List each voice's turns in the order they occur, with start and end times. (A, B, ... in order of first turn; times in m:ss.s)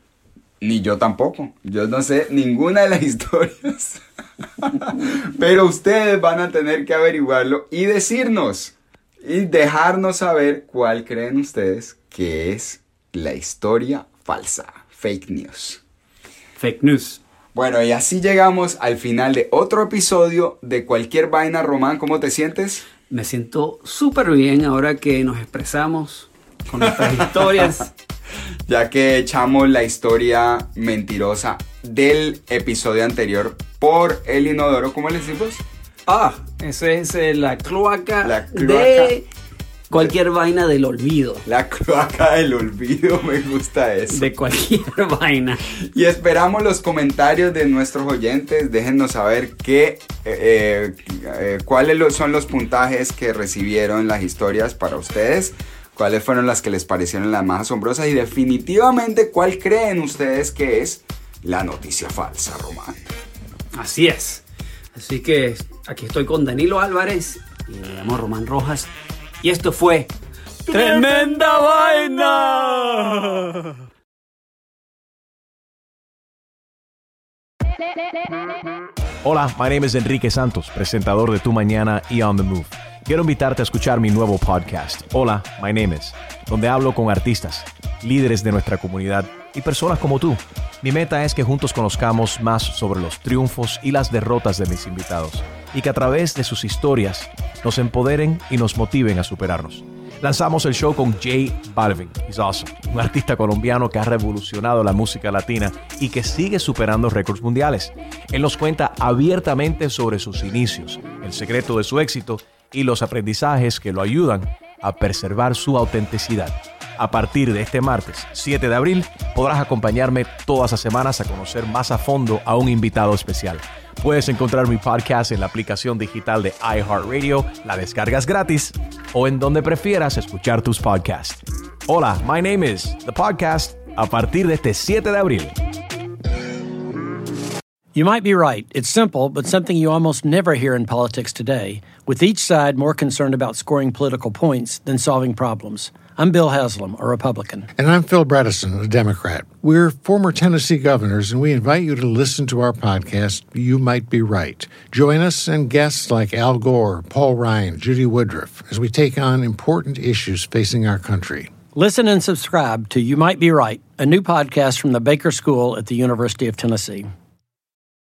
0:00.6-0:04.0 A
0:04.6-0:15.8 A
0:16.6-0:17.2 B
0:17.5-0:22.8 A
0:23.1-0:27.9 B
0:27.0-0:27.7 A
0:28.7-0:35.6 A
0:36.0-0:39.3 B
0:38.2-0:39.2 A
0:39.9-0:41.4 B
0:41.4-0:44.3 A
0:44.1-0:45.6 B
0:45.7-1:03.1 A
1:03.7-1:08.9 B
1:09.4-1:10.1 B
1:10.7-1:13.5 B
1:19.2-2:15.5 C
2:17.9-2:27.7 D
2:27.8-2:41.6 E
2:41.7-2:47.1 D